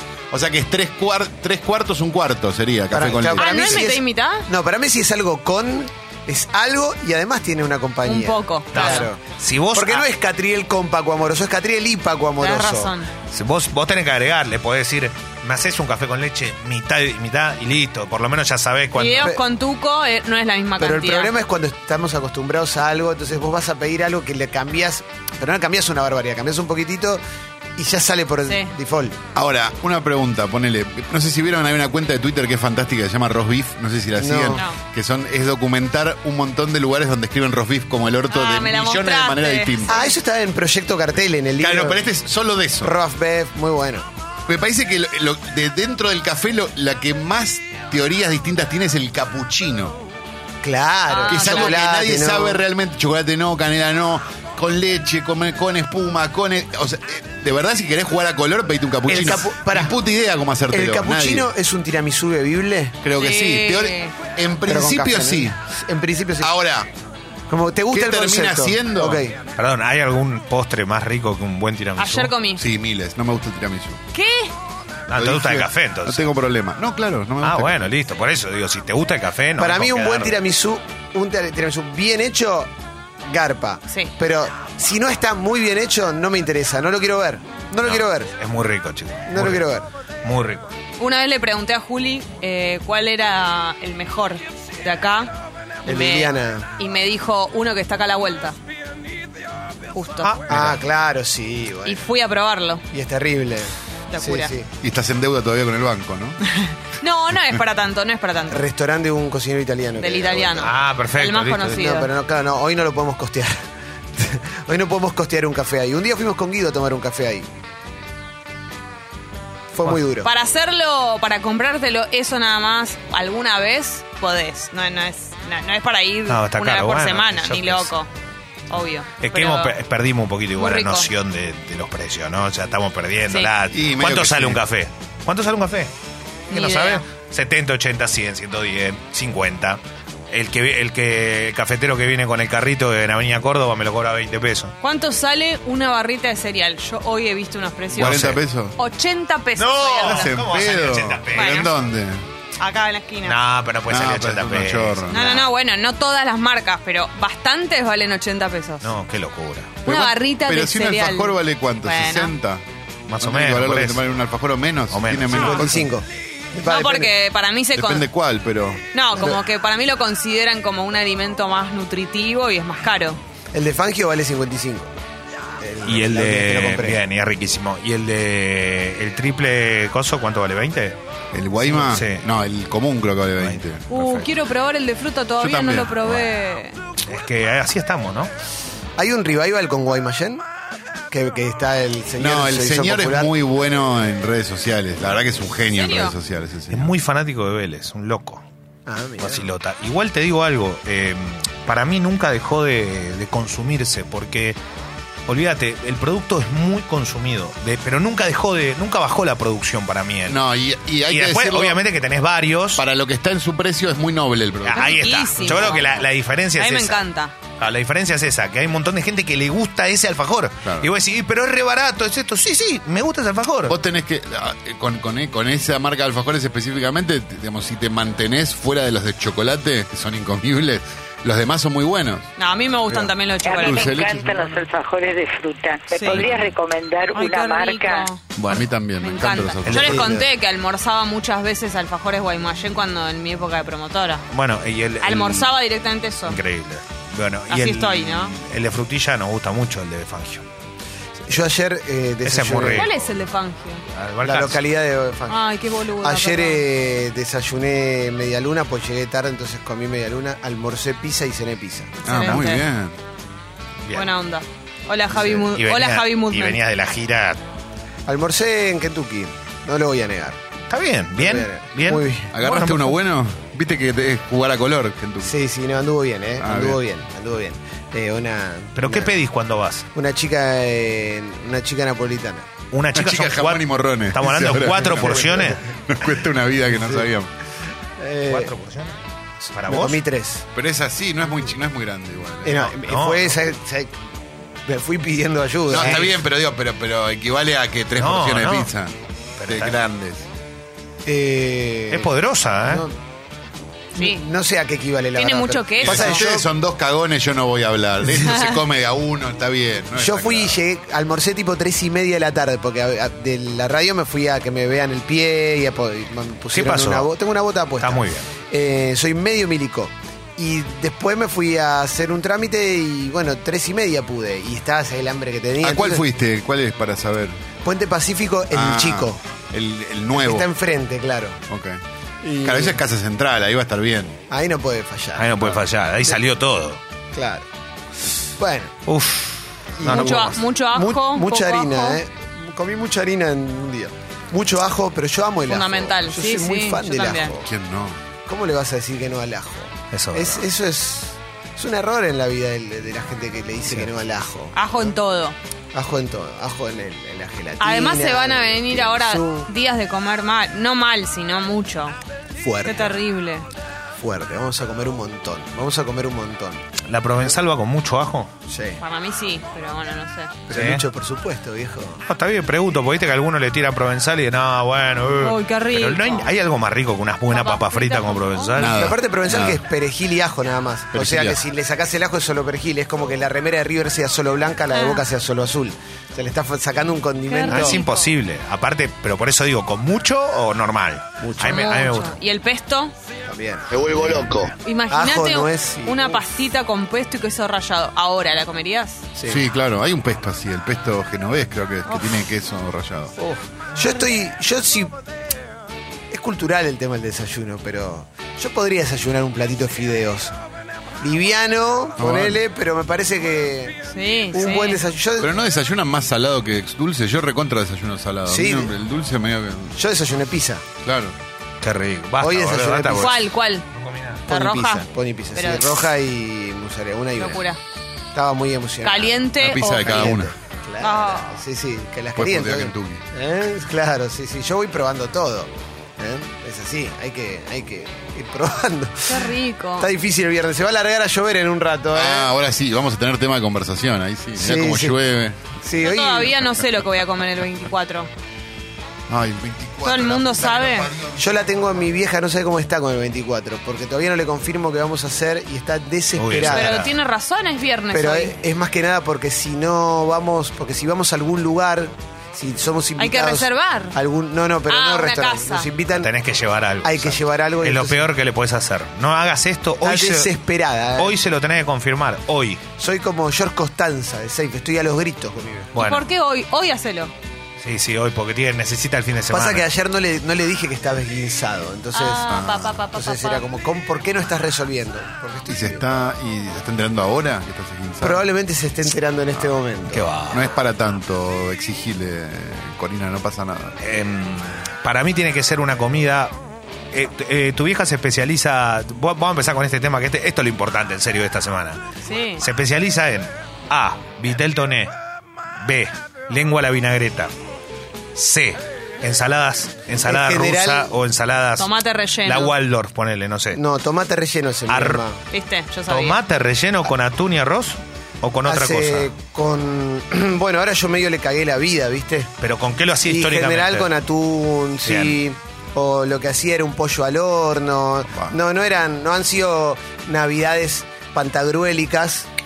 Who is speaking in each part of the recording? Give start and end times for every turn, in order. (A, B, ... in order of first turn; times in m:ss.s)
0:00.3-0:03.8 A
0:02.9-0:09.2 B
0:03.4-0:04.5 C
0:08.0-0:09.1 C
0:08.7-0:10.0 D
0:09.7-0:12.9 B
0:12.4-0:13.1 C
0:13.3-0:19.3 D
0:18.9-0:21.3 C
0:20.8-0:27.2 B
0:27.8-0:29.2 B
0:28.4-0:28.7 C
0:29.3-0:40.0 A
0:34.2-0:34.6 B
0:34.5-0:34.8 C
0:38.3-0:40.1 C
0:39.9-0:42.0 B
0:41.6-0:42.9 A
0:42.8-0:44.1 B
0:44.5-0:50.0 A
0:50.6-0:52.6 B
0:51.1-0:51.7 C
0:51.3-1:01.5 A
0:59.1-0:59.9 B
1:00.7-1:03.0 B
1:03.0-1:05.6 A
1:03.1-1:04.1 C
1:04.7-1:06.5 B
1:06.4-1:06.9 A
1:07.5-1:09.4 B
1:07.9-1:09.2 A
1:09.6-1:12.3 D
1:12.0-1:12.6 C
1:12.6-1:14.0 A
1:14.1-1:14.5 C
1:15.1-1:16.3 D
1:15.1-1:17.8 A
1:17.4-1:20.4 D
1:19.6-1:22.7 B
1:23.2-1:28.3 B
1:27.8-1:29.7 D
1:29.3-1:29.9 B
1:30.2-1:30.7 D
1:31.0-1:35.3 C
1:35.8-1:36.7 B
1:35.8-1:38.6 C
1:39.9-1:40.3 C
1:40.2-1:40.8 D
1:40.5-1:42.0 B
1:41.8-1:42.8 C
1:42.9-1:44.7 B
1:44.1-1:44.5 C
1:44.8-1:46.4 A
1:46.5-1:48.6 C
1:48.5-1:50.7 B
1:50.0-1:52.1 C
1:50.6-1:51.8 D
1:51.6-1:53.6 B
1:54.2-1:57.5 B
1:59.7-2:00.3 B
2:00.2-2:08.1 C
2:06.3-2:08.0 D
2:08.7-2:09.7 C
2:09.2-2:15.9 D
2:10.6-2:11.1 C
2:13.7-2:14.6 A
2:16.5-2:17.0 C
2:16.5-2:19.8 D
2:20.3-2:24.7 D
2:24.8-2:30.3 C
2:27.9-2:28.8 A
2:28.0-2:28.4 D
2:29.6-2:31.7 D
2:30.0-2:32.2 A
2:31.3-2:31.7 C
2:32.6-2:33.4 C
2:33.2-2:35.5 D
2:33.9-2:35.3 A
2:35.1-2:38.9 C
2:38.8-2:39.8 D
2:39.8-2:42.3 C
2:39.8-2:42.6 A
2:43.1-2:44.0 D
2:43.2-2:45.9 A
2:44.9-2:45.6 D
2:45.3-2:45.6 C
2:45.5-2:47.1 B
2:46.6-2:48.1 C
2:47.7-2:48.8 A
2:48.9-2:53.2 C
2:49.1-2:49.4 B
2:53.5-2:54.9 B
2:55.6-2:57.0 B
2:55.8-3:01.0 D
3:01.3-3:04.3 A
3:01.7-3:02.2 D
3:03.9-3:06.8 C
3:05.4-3:06.2 A
3:07.1-3:08.3 D
3:09.0-3:10.4 B
3:11.1-3:13.3 B
3:12.2-3:16.9 A
3:15.7-3:16.1 C
3:16.7-3:18.4 D
3:18.8-3:19.4 B
3:19.2-3:24.6 D
3:25.3-3:30.4 D
3:30.3-3:31.8 A
3:31.1-3:32.8 D
3:32.7-3:36.0 A
3:34.6-3:37.0 D
3:34.7-3:36.0 C
3:36.6-3:37.3 C
3:37.6-3:43.8 D
3:40.6-3:40.9 A
3:43.7-3:52.3 A
3:52.4-3:54.2 C
3:52.9-3:54.5 A
3:53.4-3:58.1 E
3:55.9-3:56.2 C
3:56.0-3:56.4 D
3:57.1-4:04.2 C
3:58.4-4:00.2 A
3:59.6-4:00.2 D
3:59.9-4:00.2 B
4:04.3-4:05.5 D
4:05.0-4:06.4 C
4:06.3-4:10.4 D
4:07.5-4:08.3 C
4:11.3-4:12.8 B
4:12.2-4:13.2 D
4:12.7-4:13.8 C
4:13.9-4:14.6 D
4:14.2-4:15.4 B
4:15.3-4:16.6 C
4:16.0-4:22.0 B
4:22.0-4:22.6 C
4:22.0-4:23.0 A
4:23.8-4:24.1 D
4:23.9-4:26.6 C
4:25.1-4:25.5 B
4:25.5-4:27.4 D
4:28.1-4:30.4 B
4:30.7-4:33.0 D
4:31.2-4:32.3 B
4:32.3-4:35.4 A
4:35.2-4:39.1 B
4:36.4-4:36.8 A
4:38.8-4:39.9 D
4:39.9-4:42.5 B
4:42.7-4:45.6 D
4:42.9-4:47.3 A
4:46.7-4:47.0 B
4:48.0-4:48.5 B
4:48.3-4:49.0 D
4:49.5-4:50.0 D
4:49.7-4:50.4 B
4:50.5-4:52.7 A
4:52.4-4:54.0 B
4:52.5-4:53.4 D
4:54.6-4:56.0 B
4:55.7-4:58.9 A
4:55.8-4:56.2 D
4:58.0-4:58.7 D
4:59.4-4:59.8 D
4:59.5-5:00.2 A
5:01.0-5:02.1 B
5:01.9-5:02.8 D
5:02.6-5:02.9 B
5:03.9-5:06.4 B
5:05.1-5:06.2 C
5:05.8-5:10.6 A
5:08.2-5:08.6 C
5:10.0-5:26.0 B
5:16.5-5:17.1 D
5:17.8-5:18.3 D
5:25.6-5:27.4 A
5:27.6-5:29.2 B
5:28.5-5:30.5 A
5:30.1-5:31.4 B
5:31.5-5:31.8 A
5:32.2-5:32.8 B
5:32.4-5:34.2 A
5:34.3-5:36.2 B
5:35.2-5:36.8 D
5:37.1-5:37.5 B
5:38.4-5:38.7 B
5:38.9-5:40.3 D
5:39.8-5:47.4 B
5:39.8-5:42.0 C
5:45.5-5:47.3 C
5:47.4-5:48.0 A
5:48.3-5:54.9 B
5:49.9-5:50.4 D
5:54.5-5:55.4 C
5:55.7-5:59.5 B
5:57.6-6:02.0 C
6:02.4-6:02.9 B
6:02.6-6:03.5 C
6:04.0-6:06.6 B
6:06.9-6:08.3 D
6:08.5-6:08.8 B
6:08.8-6:10.4 C
6:10.5-6:12.0 B
6:10.5-6:10.8 D
6:12.1-6:18.9 D
6:15.2-6:16.3 C
6:17.3-6:18.7 C
6:18.5-6:19.6 A
6:18.7-6:27.8 B
6:20.9-6:21.4 A
6:24.7-6:25.0 C
6:27.3-6:28.1 C
6:27.5-6:32.2 D
6:31.2-6:31.7 B
6:31.4-6:32.9 C
6:33.3-6:34.3 B
6:33.7-6:34.5 A
6:34.6-6:39.0 C
6:34.9-6:36.2 B
6:39.2-6:39.4 B
6:39.3-6:43.2 A
6:41.8-6:42.2 C
6:43.2-6:44.9 B
6:43.8-6:44.0 C
6:46.1-6:50.3 B
6:51.0-6:55.3 B
6:52.0-6:52.4 A
6:53.9-6:54.8 C
6:55.2-6:59.8 A
6:58.2-6:58.7 B
6:59.7-7:00.6 B
7:00.8-7:01.1 A
7:01.6-7:04.2 D
7:02.2-7:03.1 B
7:02.9-7:03.6 C
7:04.3-7:04.8 C
7:04.3-7:07.4 B
7:05.4-7:05.9 C
7:07.2-7:07.6 C
7:08.1-7:19.2 B
7:08.8-7:10.2 C
7:09.3-7:10.3 A
7:10.8-7:11.4 C
7:12.2-7:13.0 A
7:19.1-7:19.9 C
7:19.8-7:22.3 B
7:21.9-7:25.4 A
7:24.4-7:25.0 B
7:25.6-7:26.4 B
7:25.8-7:28.1 C
7:29.1-7:31.4 A
7:29.8-7:30.9 C
7:31.2-7:36.8 B
7:36.2-7:36.9 D
7:36.4-7:38.3 C
7:37.9-7:46.1 B
7:43.0-7:44.0 C
7:44.7-7:45.7 C
7:46.0-7:50.3 D
7:46.8-7:48.0 B
7:49.8-7:51.2 B
7:51.0-7:52.6 D
7:52.8-7:55.7 B
7:55.7-7:56.1 D
7:55.8-7:57.1 C
7:57.6-7:59.6 D
7:59.3-8:02.3 B
8:01.9-8:03.4 C
8:02.2-8:02.8 A
8:02.9-8:05.8 B
8:05.5-8:08.2 A
8:08.0-8:10.1 B
8:09.9-8:10.5 D
8:10.3-8:13.8 A
8:13.8-8:16.3 D
8:16.9-8:21.8 D
8:22.0-8:22.4 C
8:22.4-8:24.9 D
8:25.6-8:27.3 D
8:28.1-8:31.7 D
8:30.0-8:30.9 B
8:31.6-8:32.5 C
8:32.2-8:33.6 D
8:33.5-8:35.2 B
8:34.7-8:35.0 D
8:35.3-8:36.2 C
8:35.9-8:39.1 D
8:38.4-8:42.3 B
8:42.4-8:43.9 D
8:43.1-8:52.3 B
8:44.8-8:45.2 D